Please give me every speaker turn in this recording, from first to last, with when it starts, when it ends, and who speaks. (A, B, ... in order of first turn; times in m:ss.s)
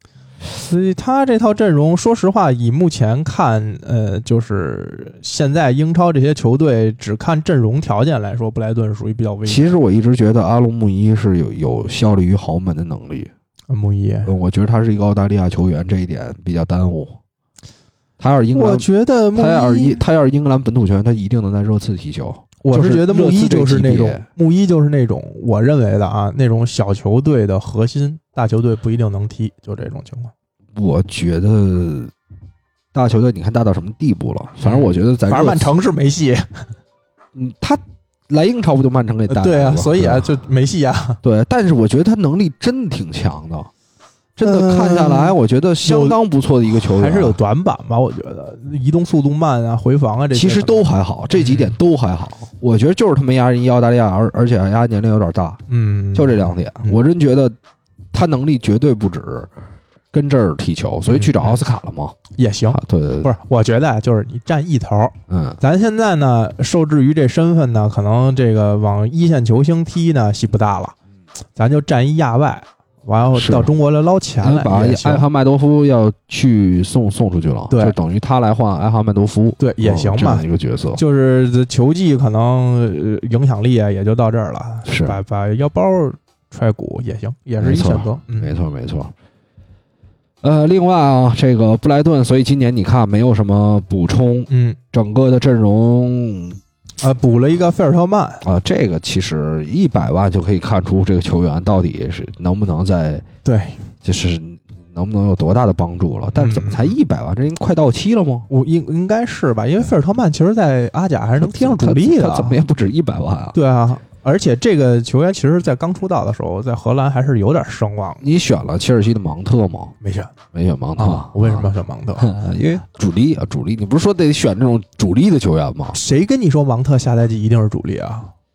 0:00.5-0:09.8 A
0:09.5-0:13.3 B
0:13.7-0:14.3 A
0:14.2-0:17.2 B
0:18.2-0:24.3 B
0:18.5-0:20.0 A
0:22.6-0:30.3 A
0:30.8-0:32.1 B
0:32.9-0:35.7 B
0:34.6-0:36.7 A
0:37.4-0:40.3 B
0:39.3-0:41.2 A
0:41.2-0:43.7 B
0:44.4-0:47.4 B
0:44.4-0:51.8 A
0:50.3-0:55.6 B
0:55.7-0:57.0 A
0:56.1-0:57.6 B
0:58.1-0:59.5 B
1:00.1-1:02.2 B
1:01.1-1:01.6 A
1:02.4-1:11.0 A
1:02.7-1:03.3 B
1:05.3-1:05.6 B
1:11.6-1:15.2 A
1:13.3-1:13.7 B
1:14.4-1:21.0 B
1:17.7-1:18.0 A
1:19.6-1:28.6 A
1:24.9-1:25.2 B
1:27.6-1:29.1 B
1:30.4-1:36.6 B
1:34.5-1:34.8 A
1:37.0-1:38.4 A
1:38.4-1:43.2 B
1:43.4-1:43.8 A
1:44.0-1:48.5 B
1:46.4-1:46.9 A
1:48.5-1:52.6 A
1:51.4-1:53.6 B
1:53.5-1:58.2 A
1:58.2-2:00.0 B
2:00.0-2:00.3 A
2:00.5-2:06.0 B
2:01.0-2:02.4 A
2:05.9-2:08.3 A